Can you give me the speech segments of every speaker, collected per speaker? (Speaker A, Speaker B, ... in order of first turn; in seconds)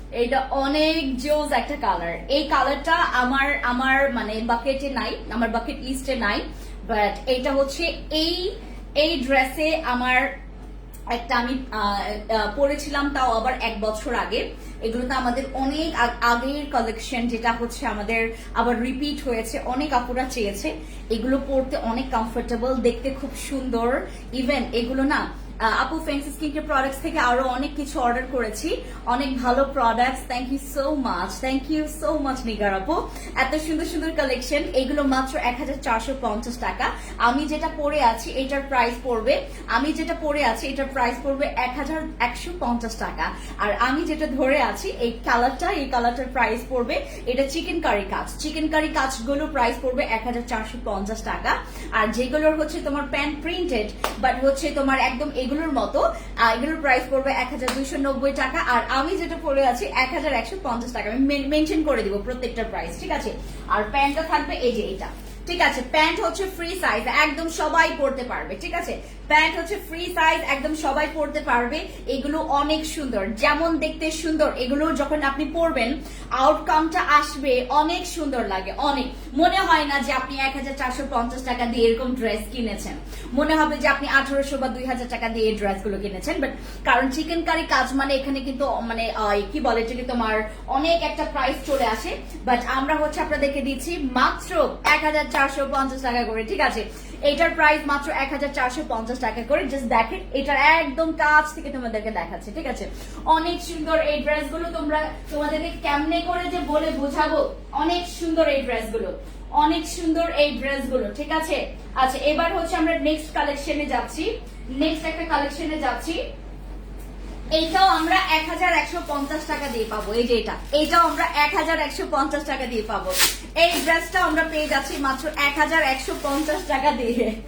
Speaker A: 0.2-10.3, 11.1-116.2, 117.5-127.3